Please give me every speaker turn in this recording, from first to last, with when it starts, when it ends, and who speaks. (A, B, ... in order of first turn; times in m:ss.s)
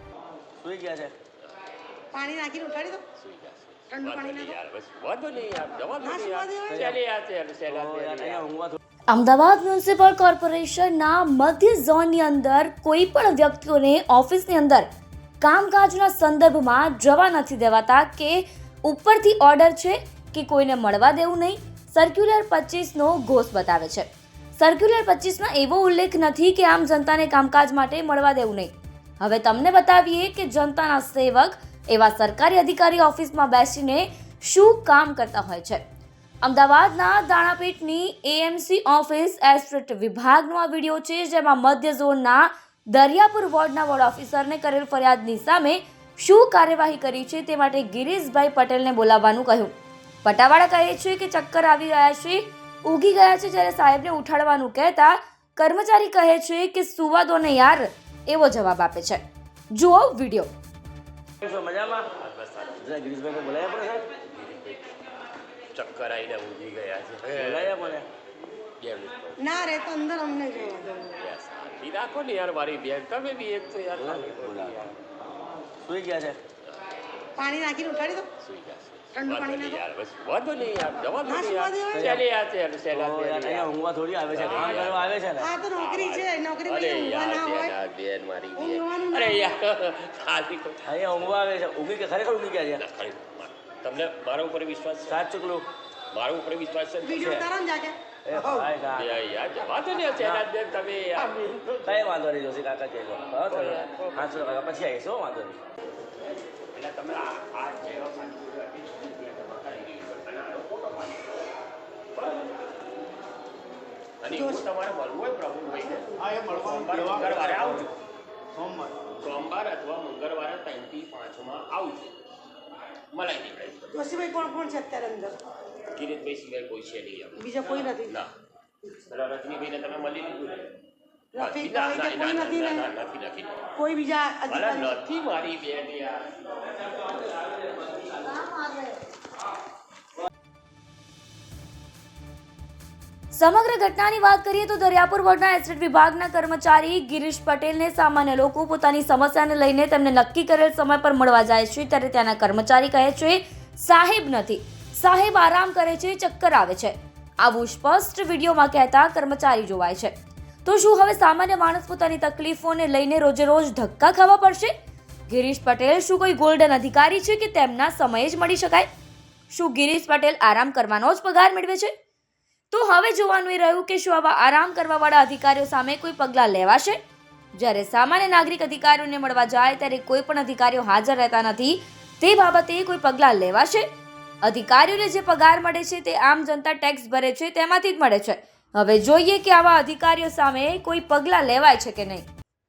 0:00.6-0:01.1 A
0:02.1-0:03.0 B
0:03.2-0:08.4 C
0:03.9-0:04.6 B
0:06.0-0:06.9 B
0:06.7-0:07.0 A
0:07.7-0:08.8 A
0:09.1-0:14.9 D
0:15.4-0:35.8 D
0:36.4-1:00.5 D
1:01.4-1:02.1 A
1:02.2-1:02.8 C
1:02.8-1:04.1 A
1:04.2-1:04.8 C
1:05.7-1:07.9 C
1:07.3-1:08.1 A
1:08.8-1:09.7 C
1:09.4-1:11.1 B
1:10.5-1:15.0 C
1:14.0-1:14.9 A
1:15.8-1:16.4 A
1:17.4-1:18.3 B
1:18.4-1:23.7 C
1:19.1-1:19.8 B
1:21.2-1:22.2 B
1:21.9-1:22.2 A
1:22.9-1:25.5 A
1:24.3-1:25.1 C
1:25.4-1:27.8 B
1:25.7-1:30.9 C
1:28.6-1:29.4 B
1:30.8-1:32.8 A
1:32.8-1:35.2 C
1:35.0-1:35.7 A
1:36.1-1:37.4 C
1:37.0-1:38.7 B
1:37.2-1:37.5 A
1:38.2-1:39.2 A
1:38.9-1:41.8 C
1:40.2-1:40.4 A
1:41.7-1:45.6 A
1:43.5-1:44.5 C
1:46.7-1:51.4 C
1:52.1-1:52.5 C
1:54.2-1:57.9 C
1:59.0-2:02.2 C
2:03.1-2:04.0 C
2:03.9-2:05.4 B
2:05.9-2:08.3 C
2:07.4-2:08.1 B
2:09.0-2:10.7 C
2:11.3-2:12.9 B
2:11.3-2:13.7 C
2:13.8-2:15.0 B
2:14.5-2:16.3 C
2:23.3-2:40.1 D
2:40.6-2:44.7 D
2:45.3-2:48.9 D
2:49.5-2:51.9 D
2:52.7-2:57.0 D
2:57.5-3:03.9 D
3:04.4-3:12.2 D